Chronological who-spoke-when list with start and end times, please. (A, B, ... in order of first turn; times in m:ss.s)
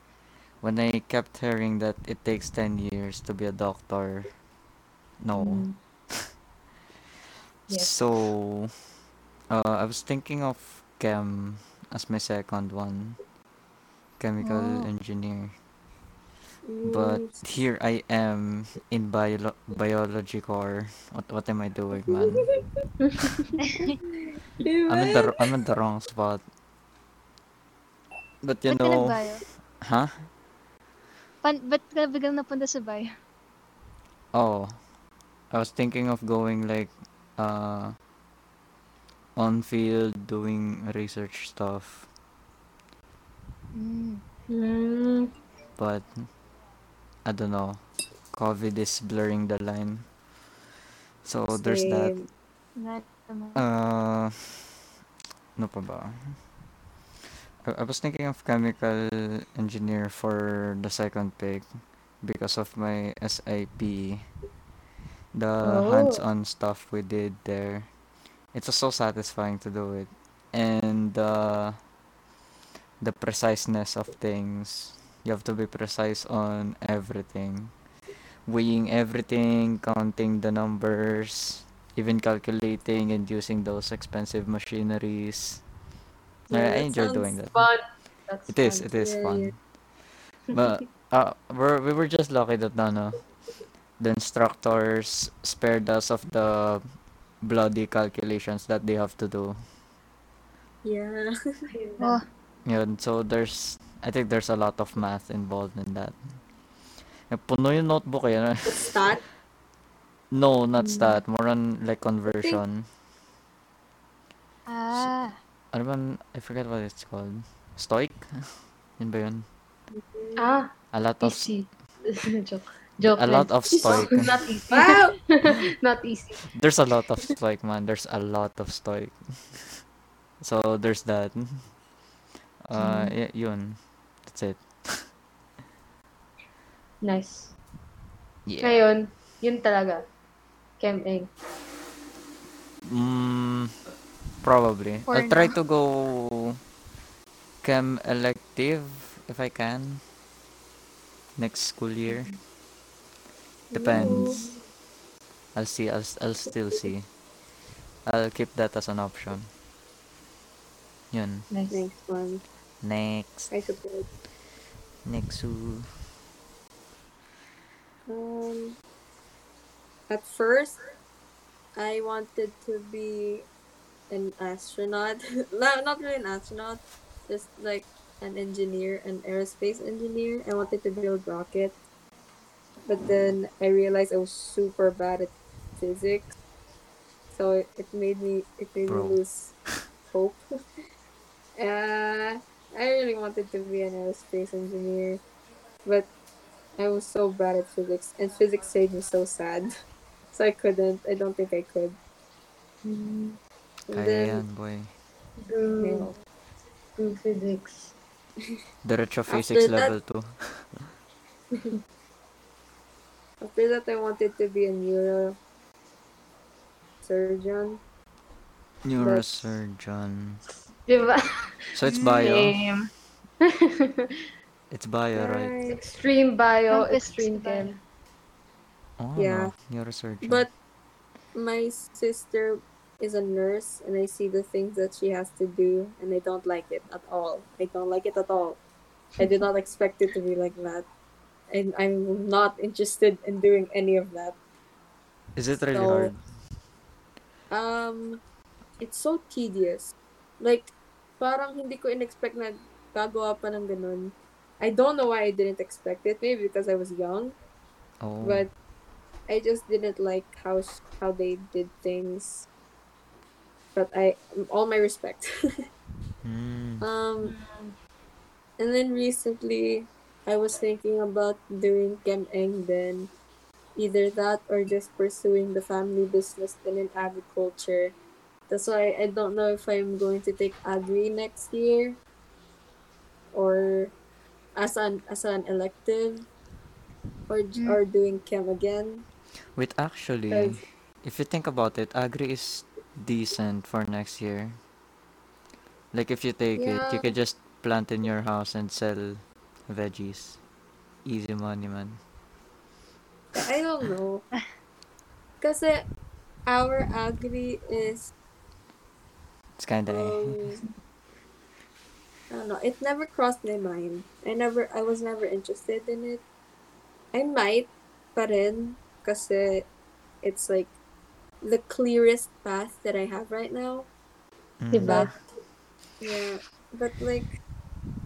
0:00.6-0:04.3 A
0:05.2-0:06.2 A
0:05.4-0:05.7 B
0:07.7-0:08.0 B
0:07.7-0:08.7 A
0:09.5-0:13.2 A
0:14.2-0:15.5 A
0:14.4-0:14.9 C
0:16.6-0:17.4 D
0:16.8-0:22.5 A
0:22.1-0:22.6 D
0:23.0-0:23.4 B
0:23.6-0:24.0 C
0:24.2-0:25.3 D
0:24.9-0:26.4 A
0:28.4-0:29.2 A
0:28.7-0:29.4 C
0:29.8-0:30.2 A
0:31.4-0:33.1 C
0:34.3-0:34.7 A
0:35.5-0:37.9 A
0:39.4-0:42.1 A
0:43.7-0:44.2 C
0:44.5-0:45.3 B
0:45.8-0:46.1 A
0:47.2-0:47.8 A
0:48.3-0:50.0 A
0:51.2-0:52.2 A
0:51.5-0:52.3 D
0:52.8-0:53.6 C
0:53.6-0:54.7 A
0:55.6-0:56.1 A
0:57.6-1:01.6 A
1:02.2-1:04.2 A
1:05.3-1:07.9 A
1:05.6-1:06.2 B
1:08.5-1:11.8 A
1:13.0-1:17.7 A
1:18.5-1:25.6 A
1:26.5-1:27.3 D
1:26.5-1:27.6 A
1:27.5-1:28.9 B
1:28.5-1:29.6 A
1:29.0-1:29.5 D
1:30.5-1:33.1 A
1:34.0-1:36.8 A
1:37.4-1:39.5 A
1:40.8-1:41.3 D
1:41.7-1:42.2 B
1:42.0-1:42.2 C
1:42.6-1:46.1 A
1:47.3-1:48.9 A
1:48.6-1:49.2 D
1:50.3-1:52.8 A
1:50.8-1:51.2 B
1:54.7-1:55.3 C
1:55.7-1:58.2 A
1:59.0-1:59.4 A
1:59.9-2:00.5 D
2:00.4-2:00.7 B
2:00.9-2:01.5 A
2:01.2-2:06.4 B
2:03.1-2:04.3 A
2:04.7-2:05.2 D
2:06.5-2:09.8 A
2:10.4-2:11.6 A
2:12.7-2:15.0 A
2:12.8-2:13.1 B
2:17.0-2:17.5 B
2:18.4-2:18.8 A
2:18.6-2:20.0 B
2:20.8-2:21.3 B
2:22.9-2:23.7 A
2:24.4-2:26.6 A
2:25.1-2:25.5 C
2:27.6-2:30.0 A
2:31.4-2:32.3 A
2:32.1-2:32.3 B
2:33.7-2:34.4 D
2:33.7-2:34.4 A
2:33.9-2:34.6 B
2:35.5-2:37.1 A
2:38.0-2:39.4 A
2:41.1-2:41.5 A
2:41.5-2:41.9 B
2:41.7-2:42.4 D
2:42.8-2:43.5 A
2:43.5-2:44.1 D
2:45.0-2:45.8 A
2:48.1-2:48.8 D
2:50.1-2:50.8 D
2:51.8-2:53.4 D
2:54.1-3:01.8 D
3:02.9-3:06.3 D
3:07.3-3:09.5 D
3:08.8-3:09.2 A
3:10.1-3:10.4 D
3:11.6-3:15.2 D
3:16.8-3:19.7 D
3:20.3-3:22.0 D
3:22.8-3:23.4 B
3:23.9-3:24.4 D
3:23.9-3:24.9 A
3:25.5-3:26.1 B
3:25.8-3:26.2 D
3:27.0-3:27.9 B
3:28.8-3:30.8 A
3:29.3-3:29.9 D
3:33.4-3:35.4 D
3:37.0-3:37.8 D
3:38.8-3:40.4 A
3:39.0-3:39.6 D
3:40.9-3:41.2 B
3:41.7-3:42.6 A
3:41.9-3:42.4 C
3:42.1-3:42.8 B
3:44.7-3:45.5 A
3:45.2-3:45.8 D
3:45.7-3:47.8 B
3:46.7-3:47.7 C
3:49.0-3:50.5 A
3:49.2-3:49.5 D
3:50.2-3:50.5 D
3:51.3-3:58.6 D
3:59.2-4:00.8 D
4:01.5-4:04.4 D
4:05.4-4:06.2 A
4:05.7-4:06.1 D
4:07.5-4:08.2 D
4:08.8-4:17.3 D
4:18.0-4:18.4 A
4:18.2-4:18.5 D
4:19.3-4:22.5 D
4:23.7-4:25.3 D
4:26.2-4:26.8 A
4:26.8-4:27.3 D
4:27.2-4:27.7 B
4:28.6-4:33.1 D
4:33.8-4:37.9 D
4:38.5-4:42.0 D
4:43.3-4:43.9 D
4:44.6-4:46.2 D
4:47.3-4:49.0 D
4:49.6-4:54.6 A
4:50.3-4:50.6 D
4:55.9-5:00.4 A
4:56.6-4:57.1 D
5:01.0-5:02.0 A
5:03.3-5:04.2 D
5:05.4-5:05.8 D
5:06.5-5:08.1 D
5:09.6-5:10.4 A
5:09.9-5:10.6 D
5:12.3-5:16.2 D
5:17.1-5:19.7 D
5:20.2-5:20.7 D
5:21.4-5:23.9 D
5:24.6-5:25.1 A
5:24.7-5:25.1 B
5:24.8-5:25.1 D
5:26.0-5:27.3 D